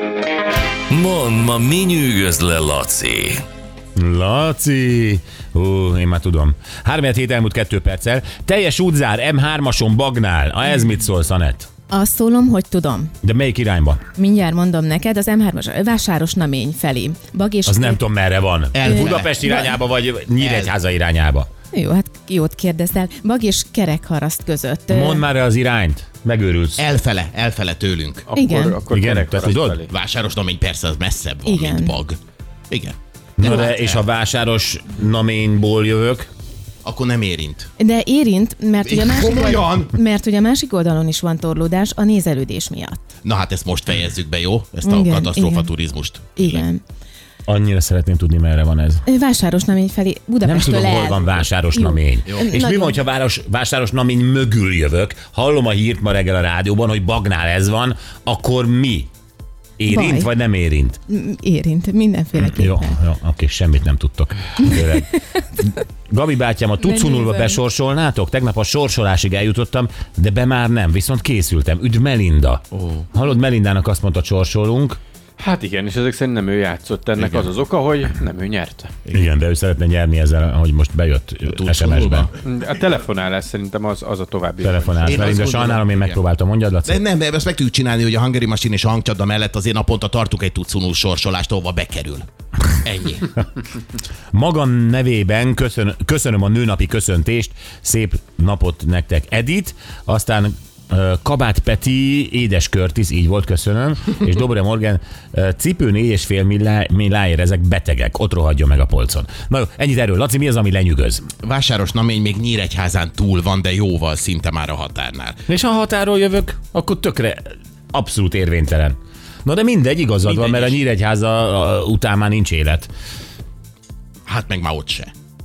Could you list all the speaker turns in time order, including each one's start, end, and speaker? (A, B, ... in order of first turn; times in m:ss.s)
0:00.9-0:03.4 A
0:04.0-0:11.7 B
0:11.9-0:13.1 C
0:13.2-0:14.0 B
0:14.1-0:18.0 C
0:17.6-0:21.5 B
0:18.7-0:19.4 D
0:18.8-0:19.7 C
0:20.4-0:20.7 D
0:21.7-0:25.3 C
0:24.9-0:26.8 B
0:26.8-0:28.2 D
0:28.3-0:29.9 E
0:28.3-0:28.8 C
0:28.9-0:29.8 B
0:29.9-0:32.2 D
0:31.4-0:31.9 C
0:32.7-0:34.0 D
0:33.4-0:36.3 B
0:36.8-0:37.7 D
0:37.8-0:43.0 C
0:38.8-0:39.9 D
0:43.2-0:46.6 D
0:44.8-0:45.7 C
0:46.4-0:46.8 C
0:47.5-0:49.0 B
0:49.1-0:53.0 C
0:50.4-0:59.1 B
0:59.8-1:01.0 B
0:59.9-1:00.3 C
1:01.1-1:03.0 C
1:02.4-1:15.0 B
1:06.8-1:07.6 C
1:12.8-1:13.0 D
1:15.4-1:18.9 E
1:17.2-1:17.4 D
1:19.1-1:22.3 B
1:21.5-1:22.3 D
1:22.4-1:25.7 E
1:24.6-1:27.0 B
1:25.0-1:26.2 D
1:26.8-1:32.2 D
1:32.8-1:33.3 D
1:34.3-1:51.2 B
1:51.4-1:55.4 D
1:55.5-2:02.9 B
2:00.2-2:00.8 D
2:04.2-2:05.1 D